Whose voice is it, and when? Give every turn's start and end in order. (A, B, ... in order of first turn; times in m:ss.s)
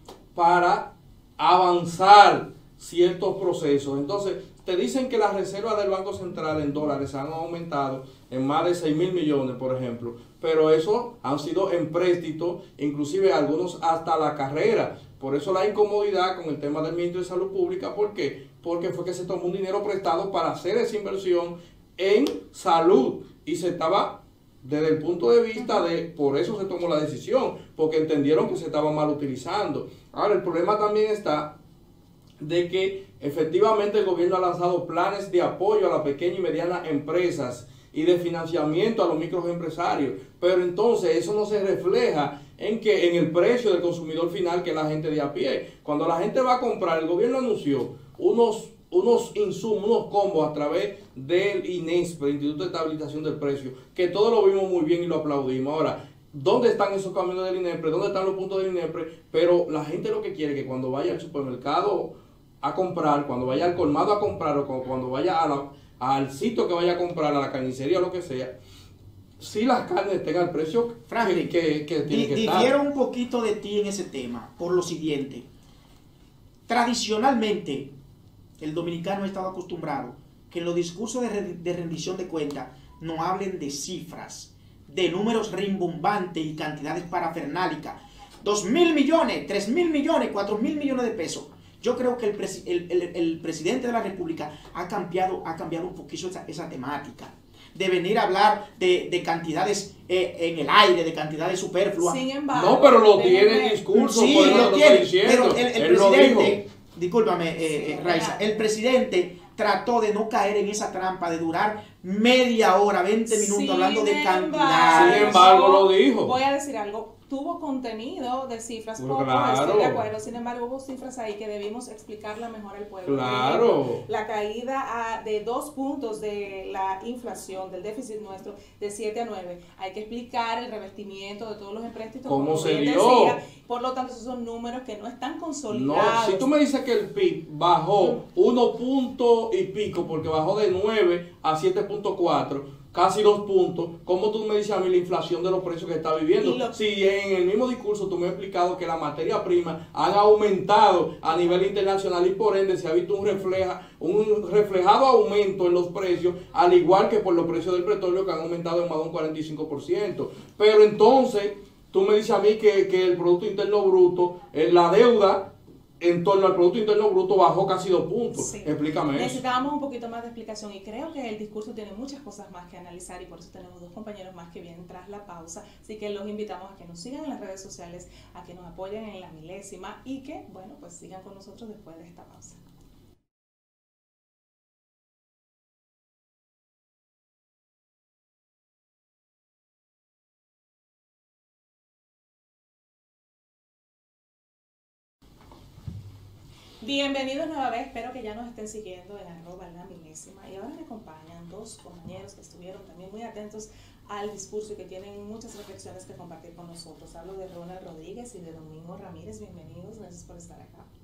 0:00.3-0:31.5 A
0:32.4-1:08.5 A
1:09.4-1:12.7 A
1:11.1-1:11.5 B
1:12.0-1:15.5 B
1:16.7-1:17.9 B
1:18.6-1:42.2 B
1:42.0-1:44.7 C
1:42.5-1:46.6 A
1:43.9-1:55.4 B
1:47.7-1:48.6 C
1:53.3-2:16.4 C
1:54.9-1:56.3 A
1:59.0-2:00.0 A
2:03.0-2:04.0 A
2:12.3-2:13.4 A
2:15.7-2:45.5 A
2:26.4-2:26.7 C
2:46.0-2:49.4 A
2:48.3-3:02.6 C
3:16.8-3:30.9 C